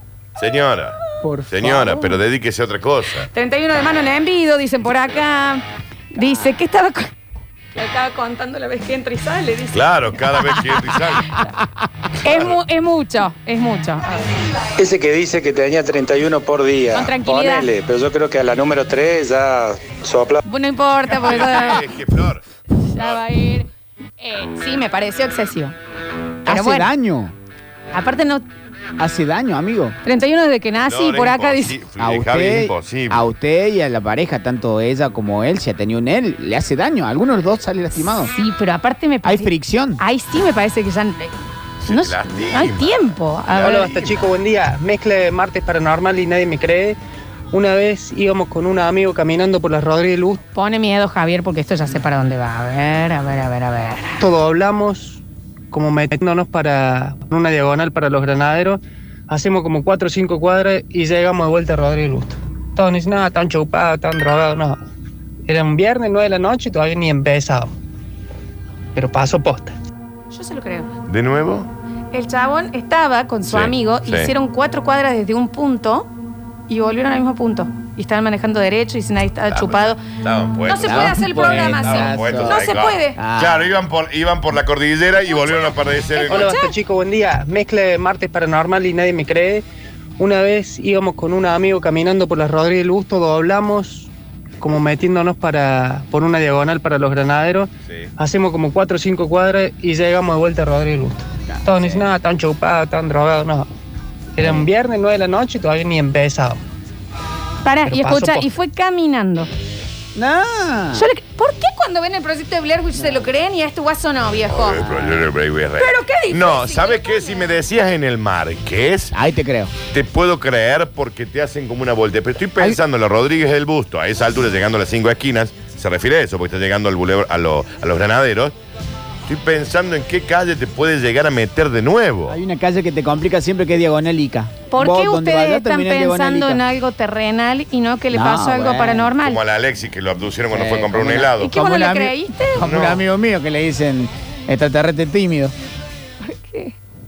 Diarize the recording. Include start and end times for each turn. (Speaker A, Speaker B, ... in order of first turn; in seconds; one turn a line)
Speaker A: 0.4-3.3
Speaker B: 1.2-2.2
Speaker C: 3.3-7.1
Speaker B: 6.2-6.5
Speaker C: 7.7-9.8
Speaker A: 9.7-11.3
Speaker C: 12.2-14.2
Speaker D: 14.8-20.4
Speaker C: 16.9-17.7
Speaker C: 20.4-21.8
Speaker A: 21.1-22.4
Speaker C: 22.8-23.7
Speaker A: 22.9-23.2
Speaker C: 24.2-25.7
Speaker B: 26.4-27.3
Speaker C: 26.4-26.9
Speaker C: 27.9-28.4
Speaker B: 29.0-29.9
Speaker C: 30.0-31.7
Speaker A: 30.8-33.2
Speaker B: 32.0-38.3
Speaker C: 38.3-41.3
Speaker B: 39.2-40.0
Speaker A: 41.8-44.2
Speaker C: 41.9-43.8
Speaker E: 43.6-47.0
Speaker E: 47.5-50.4
Speaker C: 50.5-54.2
Speaker E: 54.2-64.8
Speaker E: 65.5-67.7
Speaker E: 68.9-69.7
Speaker C: 70.3-70.9
Speaker A: 71.1-71.7
Speaker C: 72.1-76.1
Speaker A: 73.5-74.3
Speaker C: 76.7-80.0
Speaker A: 79.5-86.5
Speaker C: 80.7-83.2
Speaker B: 80.8-82.6
Speaker B: 83.2-83.7
Speaker C: 86.1-86.8
Speaker E: 86.3-89.6
Speaker E: 90.2-94.1
Speaker E: 94.6-103.7
Speaker B: 101.5-102.1
Speaker E: 104.3-106.6
Speaker B: 104.4-104.7
Speaker C: 107.6-109.5
Speaker E: 107.8-108.5
Speaker B: 110.1-111.1
Speaker C: 110.9-114.9
Speaker B: 112.9-113.2
Speaker A: 114.5-119.1
Speaker B: 114.8-115.2
Speaker C: 115.8-117.5
Speaker B: 119.1-119.7
Speaker A: 119.9-128.5
Speaker A: 129.3-132.3
Speaker B: 132.3-136.6
Speaker C: 134.7-139.4
Speaker B: 138.1-139.1
Speaker A: 139.2-141.5
Speaker B: 140.5-145.5
Speaker C: 141.4-142.6
Speaker A: 142.6-143.0
Speaker C: 146.2-146.8